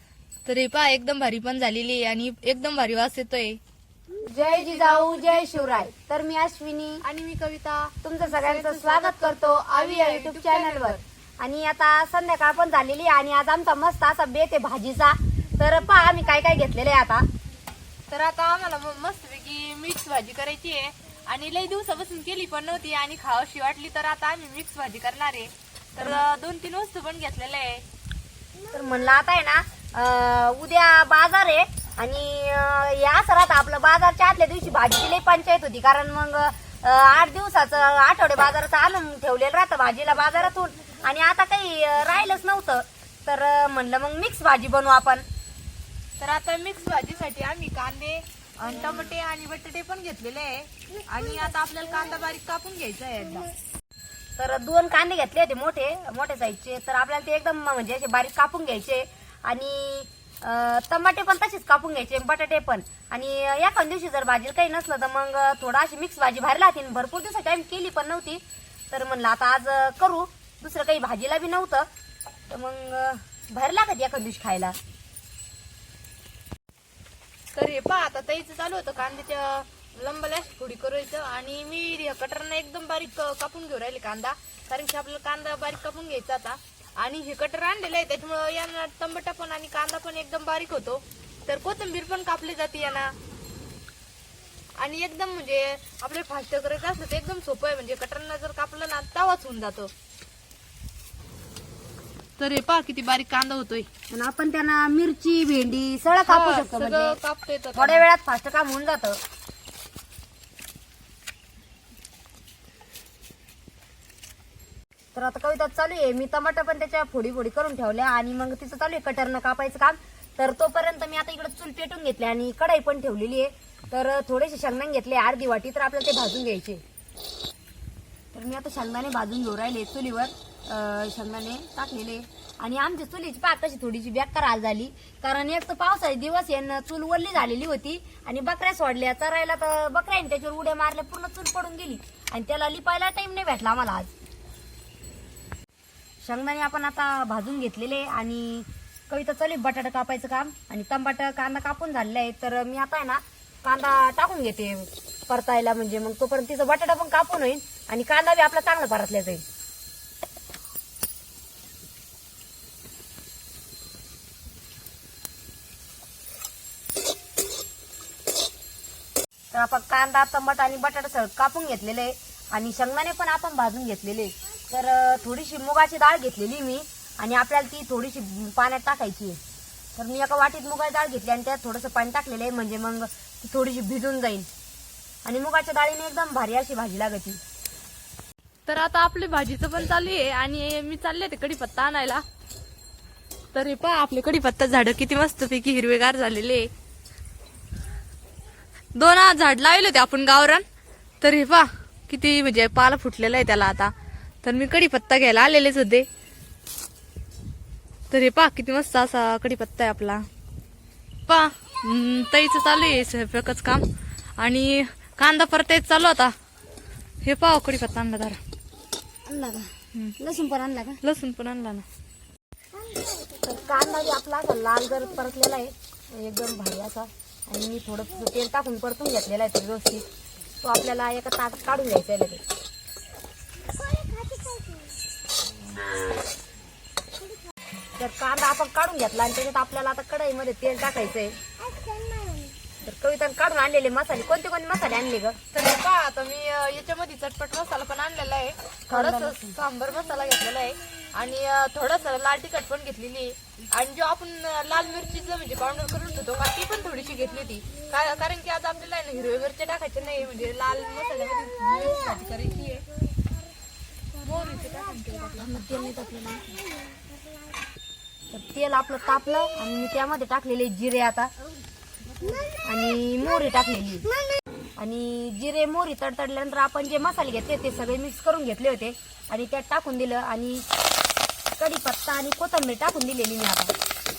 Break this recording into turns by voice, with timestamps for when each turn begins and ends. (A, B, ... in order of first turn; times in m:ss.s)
0:00.5-0:03.6 A
0:04.2-0:07.0 B
0:04.4-0:05.7 A
0:07.0-0:11.0 A
0:08.0-0:17.3 B
0:18.1-0:27.8 A
0:28.7-0:45.2 B
0:46.2-0:53.5 A
0:54.4-1:11.9 B
1:12.5-1:14.8 B
1:17.5-1:33.1 A
1:34.8-1:39.9 A
1:42.4-1:43.9 A
1:44.1-1:47.2 B
1:46.3-1:48.1 A
1:47.8-1:49.2 B
1:55.2-2:06.8 B
2:08.3-2:24.1 B
2:26.2-2:39.4 B
2:49.5-2:59.4 B
3:00.0-3:04.5 B
3:05.2-3:07.4 B
3:08.7-3:12.2 A
3:13.5-3:16.7 A
3:19.0-3:20.6 A
3:21.2-3:26.1 A
3:28.1-3:30.3 A
3:31.3-3:33.9 A
3:34.4-3:36.3 A
3:37.2-3:38.4 A
3:39.3-3:41.0 B
3:41.0-3:41.8 A
3:43.4-3:50.1 B
3:50.6-3:52.4 B
3:58.0-4:01.4 B
4:02.8-4:05.4 B
4:05.5-4:22.9 A
4:08.9-4:09.6 B
4:24.2-4:25.7 A
4:25.4-4:26.6 B
4:28.3-4:31.3 B
4:32.6-4:34.1 B
4:34.8-4:40.6 B
4:41.6-4:43.7 B